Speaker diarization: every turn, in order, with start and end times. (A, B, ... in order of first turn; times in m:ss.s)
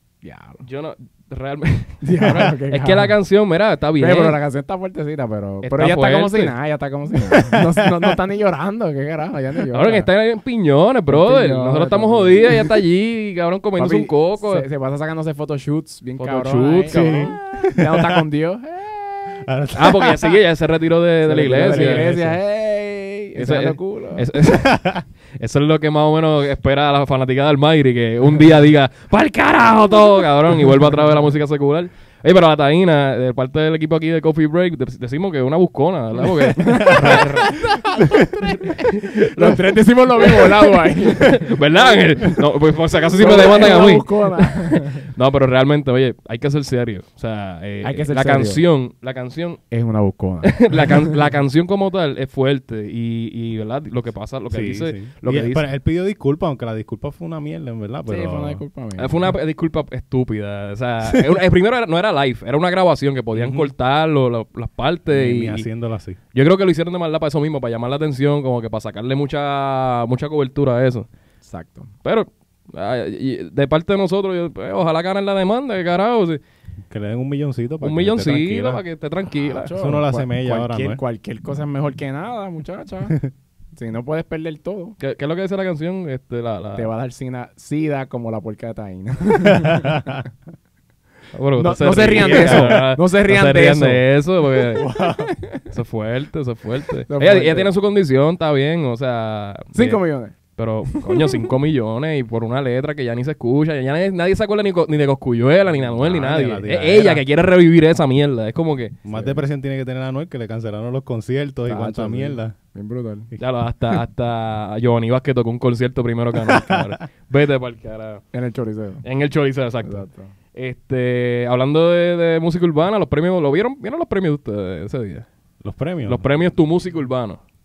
0:00.2-0:00.6 A
0:00.6-0:04.4 B
0:02.0-0:03.2 A
0:02.2-0:02.5 C
0:04.0-0:10.1 A
0:05.6-0:06.6 B
0:09.7-0:14.7 B
0:11.1-0:12.7 A
0:13.8-0:19.4 A
0:16.2-0:17.4 B
0:16.9-0:18.2 C
0:19.4-0:20.4 C
0:19.7-0:22.2 B
0:21.2-0:24.3 A
0:21.4-0:22.4 C
0:23.4-0:49.6 B
0:24.4-0:25.0 C
0:36.6-0:42.0 A
0:36.8-0:37.2 C
0:43.1-0:45.1 A
0:47.8-0:48.6 A
0:49.7-0:51.2 A
0:50.4-0:55.6 B
0:54.5-0:58.6 C
0:58.1-0:59.3 A
0:59.0-1:05.7 B
1:03.3-1:03.7 C
1:05.1-1:06.2 C
1:06.3-1:11.1 B
1:11.4-1:11.9 A
1:12.0-1:16.4 B
1:16.9-1:18.8 C
1:17.8-1:19.7 B
1:19.3-1:23.2 A
1:19.7-1:21.0 C
1:23.7-1:25.0 A
1:25.0-1:26.9 B
1:26.8-1:30.2 A
1:31.3-1:34.8 B
1:31.6-1:34.0 A
1:32.4-1:32.8 C
1:34.7-1:35.7 A
1:34.8-1:35.3 C
1:35.7-1:40.0 B
1:37.1-1:37.7 A
1:39.7-1:41.2 A
1:40.6-1:49.0 B
1:45.7-1:47.2 C
1:49.0-1:52.6 C
1:49.1-1:49.4 A
1:51.7-1:53.3 A
1:53.4-1:58.2 B
1:56.4-1:56.9 C
1:58.3-1:59.0 A
1:59.0-2:05.3 B
1:59.8-2:00.4 A
2:05.6-2:06.5 C
2:06.0-2:07.4 B